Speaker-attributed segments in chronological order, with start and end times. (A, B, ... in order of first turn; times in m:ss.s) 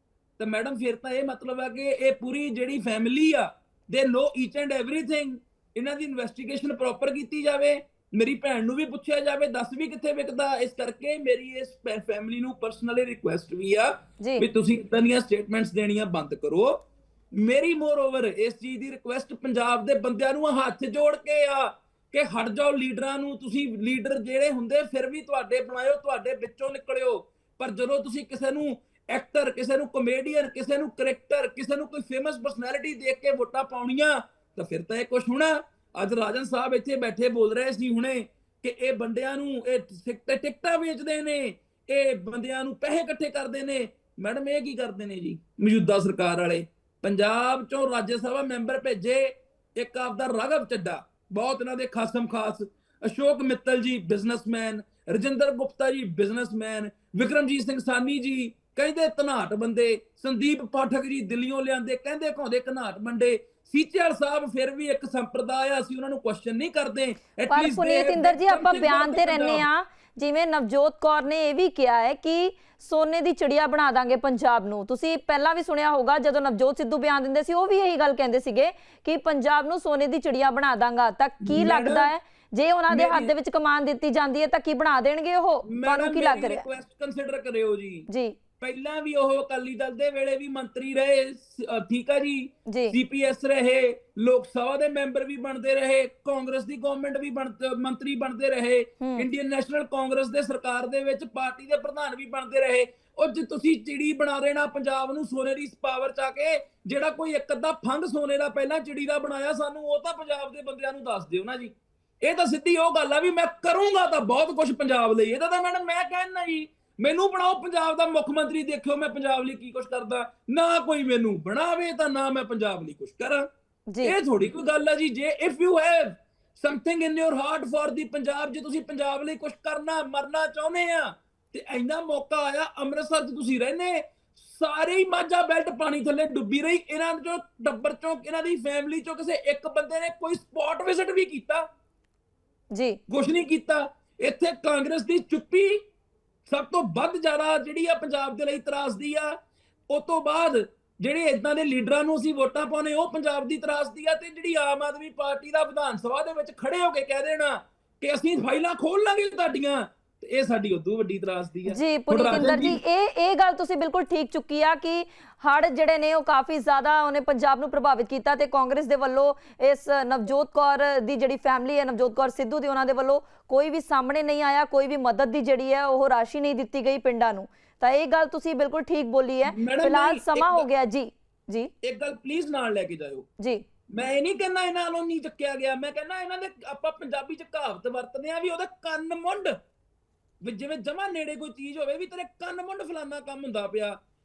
0:00.4-1:09.6 A
1:07.5-1:26.6 B
1:21.4-1:22.1 A
1:22.9-1:23.3 A
1:25.7-1:28.1 A
1:28.1-1:28.4 B
1:28.6-2:03.5 A
1:32.7-1:32.9 B
1:39.0-1:39.3 B
2:03.9-2:04.1 B
2:04.0-2:21.7 A
2:22.7-2:23.0 B
2:23.1-2:25.8 A
2:26.5-2:29.4 A
2:29.9-2:42.8 A
2:41.7-3:01.7 B
2:59.4-3:00.7 A
3:01.8-3:03.3 A
3:03.4-3:03.6 B
3:03.9-3:09.6 A
3:10.4-3:14.0 A